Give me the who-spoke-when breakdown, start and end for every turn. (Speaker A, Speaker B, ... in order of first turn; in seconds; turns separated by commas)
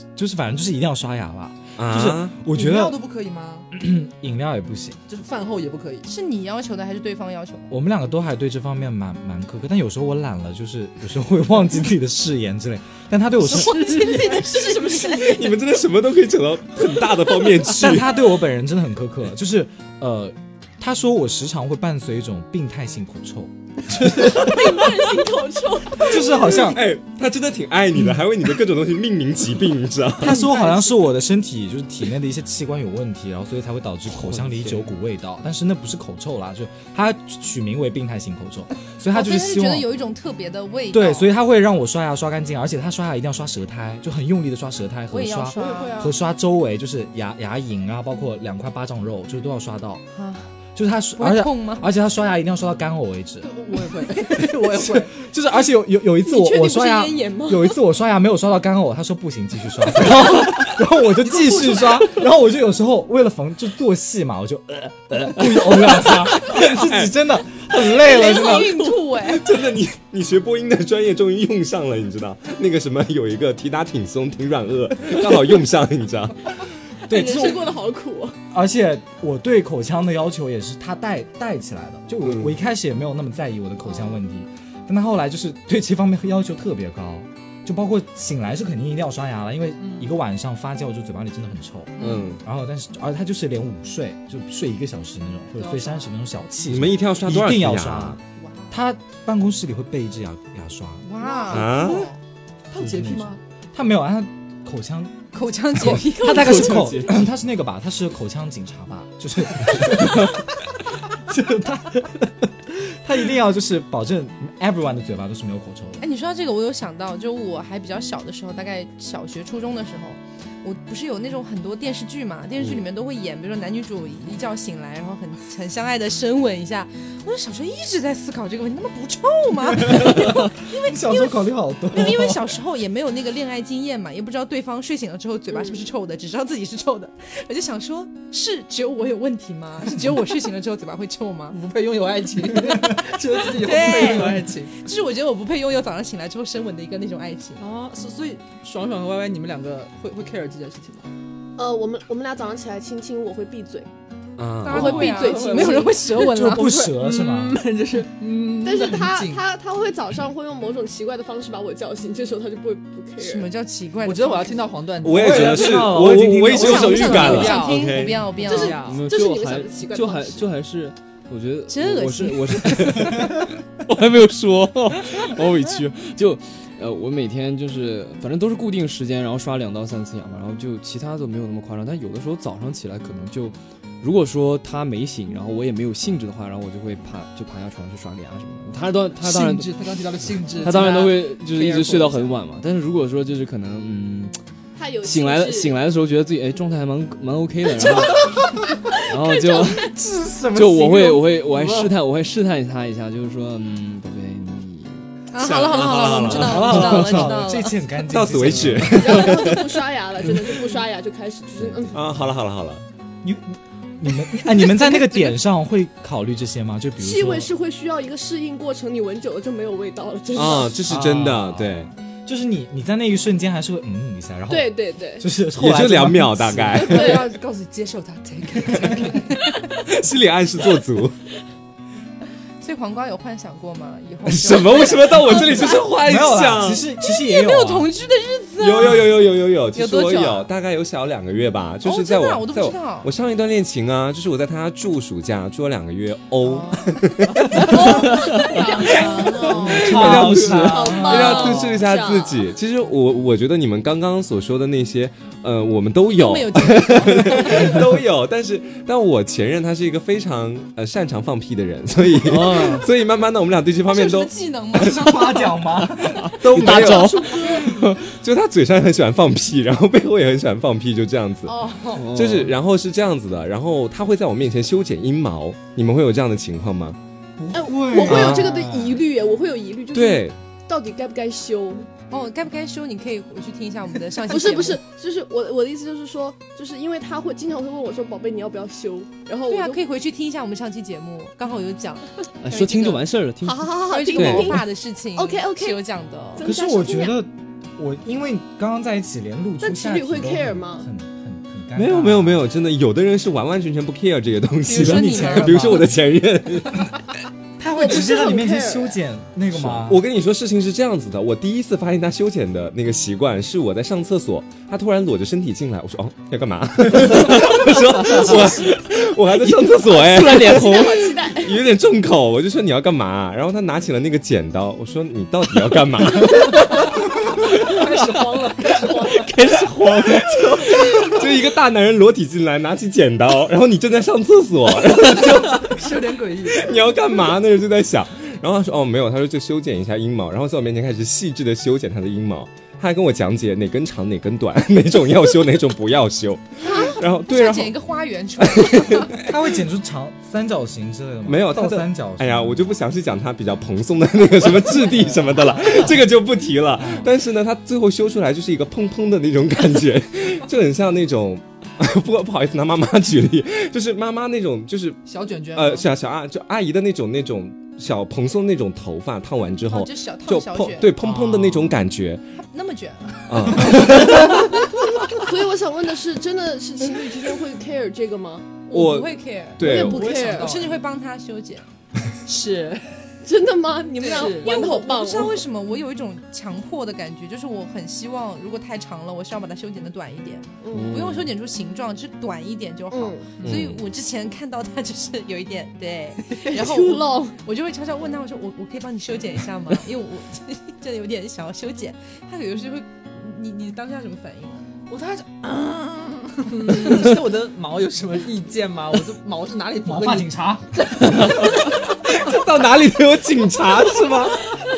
Speaker A: 0.1-3.0, Speaker B: 1.8-2.4, Speaker C: 2.5-3.7, Speaker A: 3.7-5.0, Speaker C: 5.1-6.1, Speaker D: 6.0-7.7, Speaker A: 7.7-14.0, Speaker D: 13.4-15.4, Speaker C: 13.5-15.5, Speaker B: 15.1-18.1, Speaker A: 17.7-24.9, Speaker E: 24.3-26.6, Speaker A: 26.0-26.9, Speaker B: 26.6-30.4, Speaker A: 30.2-39.9, Speaker C: 30.4-30.8, Speaker F: 34.2-34.9, Speaker D: 39.1-41.3, Speaker A: 40.9-50.0, Speaker D: 45.1-46.1, Speaker E: 45.6-46.1, Speaker D: 50.1-50.5, Speaker A: 50.7-53.5, Speaker D: 51.2-51.8, Speaker C: 53.4-55.1, Speaker A: 54.2-68.8, Speaker E: 56.2-57.7, Speaker C: 61.2-62.1, Speaker B: 66.1-67.1, Speaker D: 67.9-69.5, Speaker B: 69.2-76.5, Speaker E: 77.1-78.4, Speaker A: 77.1-77.7, Speaker A: 78.5-98.2, Speaker B: 82.2-82.5, Speaker C: 89.8-90.1, Speaker B: 92.0-92.4, Speaker D: 92.0-92.3, Speaker C: 95.6-96.1, Speaker B: 96.7-98.2, Speaker A: 98.7-101.0, Speaker D: 101.0-102.1, Speaker C: 101.2-102.0, Speaker B: 101.5-102.1, Speaker C: 102.7-103.4, Speaker A: 102.8-110.6, Speaker D: 105.3-107.1, Speaker F: 106.2-107.2, Speaker A: 111.1-116.0, Speaker D: 116.0-141.6, Speaker A: 129.6-132.5, Speaker C: 141.5-144.7, Speaker D: 143.4-147.6, Speaker C: 147.6-151.1, Speaker E: 151.6-153.9, Speaker B: 154.4-154.9, Speaker D: 154.6-156.8, Speaker C: 154.7-159.4, Speaker E: 154.7-156.1, Speaker A: 156.1-157.6, Speaker E: 158.6-163.5, Speaker D: 163.2-164.7, Speaker C: 164.0-169.0, Speaker B: 165.0-168.3, Speaker A: 165.0-167.4, Speaker D: 166.5-168.8, Speaker E: 168.4-170.5, Speaker F: 168.7-189.7, Speaker D: 171.7-173.4, Speaker C: 189.2-192.3, Speaker F: 190.6-194.3, Speaker E: 194.8-195.8, Speaker F: 195.0-198.4, Speaker F: 199.0-199.9, Speaker A: 199.7-201.9, Speaker F: 200.5-205.0, Speaker D: 205.3-207.8, Speaker B: 205.4-207.2, Speaker A: 206.3-209.3, Speaker F: 206.6-207.2, Speaker B: 208.1-209.7, Speaker F: 208.5-209.0, Speaker E: 208.9-212.1, Speaker B: 211.9-212.8, Speaker A: 213.2-217.5, Speaker E: 217.0-220.8, Speaker B: 220.3-221.9, Speaker A: 220.8-227.1, Speaker E: 224.5-225.3, Speaker B: 225.5-227.2, Speaker C: 226.7-229.4, Speaker E: 226.8-227.3, Speaker B: 229.7-231.2, Speaker D: 232.6-235.8, Speaker B: 234.2-236.8, Speaker A: 236.0-237.9, Speaker D: 237.0-240.5, Speaker B: 238.6-247.9, Speaker D: 241.8-243.1, Speaker D: 246.4-249.6, Speaker E: 248.0-249.9, Speaker B: 248.9-264.9, Speaker A: 249.4-251.5, Speaker F: 249.8-250.8, Speaker E: 250.6-252.5, Speaker D: 256.1-257.8, Speaker F: 262.2-262.9, Speaker D: 263.8-265.5, Speaker A: 264.7-267.0, Speaker F: 266.0-268.0, Speaker B: 266.4-271.6, Speaker E: 266.7-267.6, Speaker D: 271.4-272.0, Speaker F: 271.9-272.5, Speaker B: 272.1-277.0, Speaker A: 277.4-278.6, Speaker E: 277.5-281.9, Speaker B: 278.0-278.8, Speaker B: 279.9-280.4, Speaker D: 282.1-284.8, Speaker E: 284.3-289.8, Speaker D: 289.5-293.0, Speaker F: 292.4-294.4, Speaker E: 293.4-295.8, Speaker D: 293.9-296.5, Speaker E: 296.3-297.2, Speaker A: 296.4-302.4, Speaker E: 299.6-300.9, Speaker B: 301.8-306.9, Speaker D: 304.6-305.9, Speaker A: 304.8-305.9, Speaker A: 307.6-310.0, Speaker E: 307.7-309.0, Speaker B: 309.5-326.9, Speaker F: 318.0-318.4, Speaker F: 319.4-321.2, Speaker E: 320.2-321.6, Speaker C: 327.5-329.3, Speaker E: 328.9-329.3, Speaker B: 329.3-335.9, Speaker C: 330.6-331.2, Speaker C: 335.1-336.8, Speaker B: 336.5-347.8, Speaker D: 346.6-349.2, Speaker B: 348.4-349.3, Speaker A: 349.2-352.7, Speaker B: 351.2-365.0, Speaker A: 356.8-357.1, Speaker C: 365.0-365.9, Speaker B: 365.5-372.2, Speaker D: 369.7-370.9, Speaker A: 371.0-371.7, Speaker D: 372.5-374.5, Speaker B: 373.3-374.6, Speaker E: 375.0-378.6, Speaker D: 378.7-381.6, Speaker B: 378.7-380.1, Speaker E: 379.6-380.6, Speaker C: 379.6-380.8, Speaker C: 382.2-382.9, Speaker E: 383.2-385.4, Speaker D: 384.0-404.6, Speaker C: 384.0-384.7, Speaker E: 390.6-391.0, Speaker F: 390.7-391.3, Speaker E: 392.9-393.3, Speaker B: 393.4-393.8, Speaker E: 396.5-397.4, Speaker C: 404.9-410.3, Speaker A: 409.8-410.7, Speaker C: 410.9-411.6, Speaker B: 411.1-414.4